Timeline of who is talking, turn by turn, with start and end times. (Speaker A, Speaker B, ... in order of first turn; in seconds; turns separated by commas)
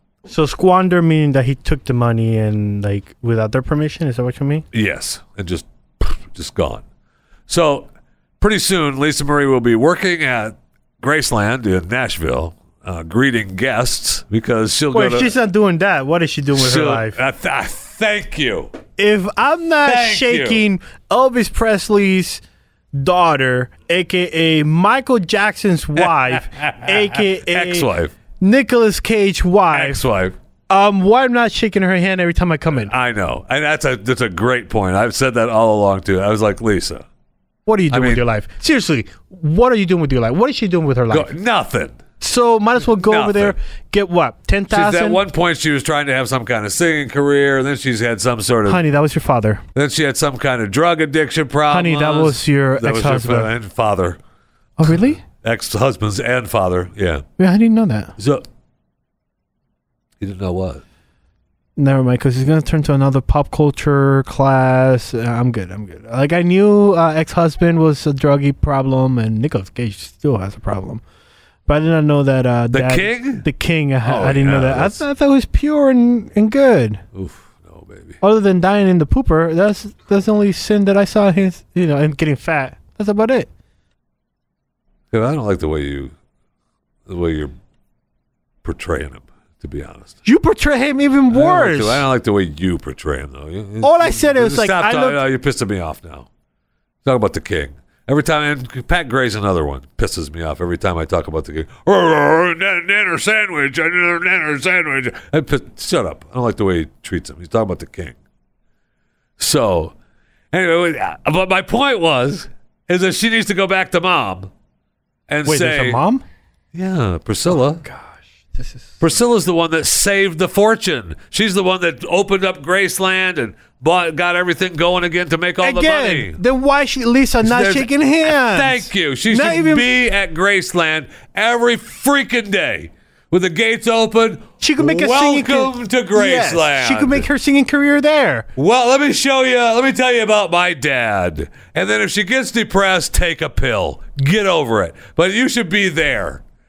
Speaker A: 0.3-4.7, Speaker B: 4.7-6.8, Speaker B: 7.5-7.9, Speaker B: 8.4-15.3, Speaker A: 14.9-17.2, Speaker B: 16.6-18.7, Speaker A: 19.0-22.4, Speaker B: 19.8-20.6, Speaker A: 22.9-30.0, Speaker B: 26.0-28.1, Speaker B: 29.7-30.4, Speaker A: 30.7-32.9, Speaker B: 32.7-37.1, Speaker A: 37.7-41.3, Speaker B: 37.9-38.2, Speaker B: 41.1-42.0, Speaker A: 42.2-45.2, Speaker B: 42.8-43.6, Speaker B: 44.7-48.8, Speaker A: 48.7-49.6, Speaker B: 49.8-54.2, Speaker A: 51.7-53.5, Speaker A: 54.8-55.2, Speaker B: 54.9-57.2, Speaker A: 57.4-58.1, Speaker B: 58.2-58.5, Speaker B: 60.2-60.8, Speaker A: 61.8-71.0, Speaker A: 71.7-77.0, Speaker B: 72.7-73.5, Speaker B: 74.0-75.0, Speaker B: 77.1-78.2, Speaker A: 78.2-83.5, Speaker B: 85.1-86.1, Speaker B: 87.1-87.5, Speaker B: 88.6-90.2, Speaker A: 90.2-92.0, Speaker B: 91.3-96.3, Speaker A: 93.8-95.2, Speaker B: 97.0-108.2, Speaker B: 109.4-110.0, Speaker B: 110.5-114.5, Speaker B: 115.3-116.0, Speaker A: 115.5-116.2, Speaker B: 116.7-117.8, Speaker A: 117.8-119.0, Speaker B: 119.0-126.4, Speaker A: 125.6-129.9, Speaker B: 127.4-137.3, Speaker A: 134.6-138.5, Speaker B: 138.6-146.4